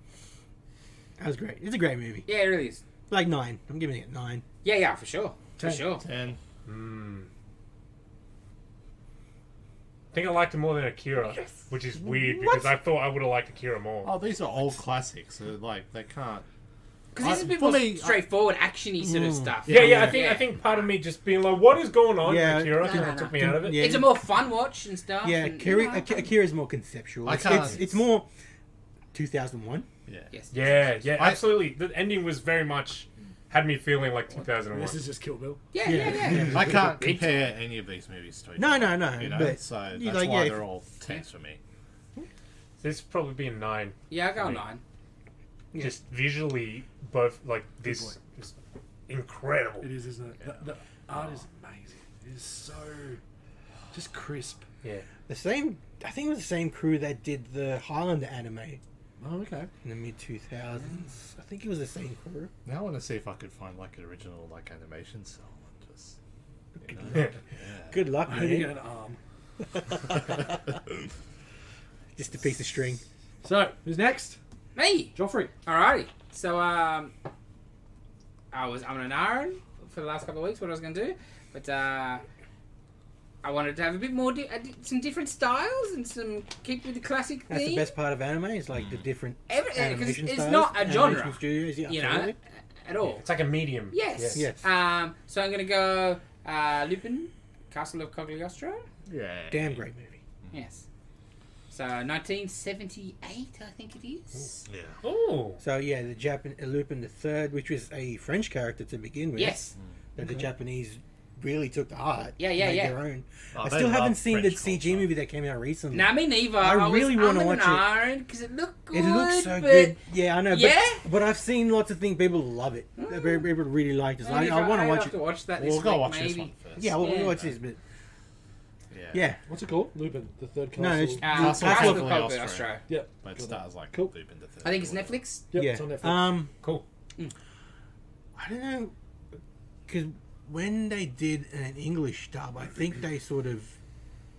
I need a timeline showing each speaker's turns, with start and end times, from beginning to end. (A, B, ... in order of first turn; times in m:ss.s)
0:01.2-0:02.3 A
0:02.3-0:02.8 B
0:03.1-0:04.4 A
0:04.6-0:06.0 B
0:05.6-0:05.8 C
0:06.0-0:06.4 D
0:06.6-0:07.3 E
0:10.1-0:14.1 E
0:12.0-0:12.7 A
0:14.0-0:16.4 D
0:17.1-0:20.5 B
0:17.2-0:18.2 D
0:19.0-0:20.2 A
0:19.7-0:24.0 E
0:19.7-0:20.0 D
0:22.2-0:24.2 A
0:22.7-0:26.3 B
0:25.2-0:28.2 A
0:27.2-0:28.0 D
0:29.1-0:29.9 A
0:30.1-0:30.3 D
0:30.5-0:35.1 E
0:31.1-0:31.6 D
0:34.7-0:36.8 C
0:35.7-0:37.4 B
0:35.8-0:36.7 A
0:36.3-0:41.6 D
0:38.6-0:40.6 A
0:42.8-0:44.6 E
0:44.1-0:44.8 B
0:45.7-0:46.0 A
0:45.8-0:48.5 E
0:47.8-0:48.2 C
0:49.1-0:49.9 E
0:49.8-0:53.2 C
0:51.1-0:51.4 D
0:53.9-0:54.6 C
0:55.3-0:58.8 A
0:59.2-0:59.7 C
0:59.8-1:02.5 A
1:02.6-1:06.2 D
1:06.8-1:08.0 D
1:06.9-1:07.2 A
1:07.9-1:08.7 A
1:08.3-1:09.2 C
1:09.7-1:10.4 A
1:12.2-1:13.0 A
1:13.4-1:14.4 C
1:14.8-1:17.1 B
1:15.1-1:15.5 C
1:18.5-1:22.2 B
1:23.4-1:27.9 B
1:27.5-1:32.4 A
1:28.8-1:29.0 D
1:29.5-1:33.2 B
1:33.2-1:34.4 E
1:33.9-1:38.8 B
1:34.3-1:34.6 A
1:39.1-1:39.8 D
1:39.5-1:40.2 A
1:40.5-1:40.8 B
1:41.7-1:44.6 B
1:44.6-1:45.0 D
1:45.0-1:45.6 E
1:45.6-1:49.6 A
1:49.4-1:49.7 B
1:50.2-1:57.8 A
1:52.4-1:53.0 B
1:53.5-1:55.1 D
1:55.9-2:01.0 B
1:58.9-2:05.1 A
2:03.0-2:03.4 B
2:04.2-2:07.4 B
2:05.6-2:07.5 D
2:06.8-2:07.8 A
2:08.9-2:09.3 D
2:09.1-2:09.4 A
2:09.5-2:11.5 C
2:10.8-2:12.3 A
2:11.2-2:12.8 B
2:11.3-2:15.2 D
2:12.9-2:14.1 C
2:14.6-2:15.4 B
2:15.5-2:16.4 C
2:15.5-2:16.5 A
2:18.4-2:18.9 A
2:19.9-2:23.8 A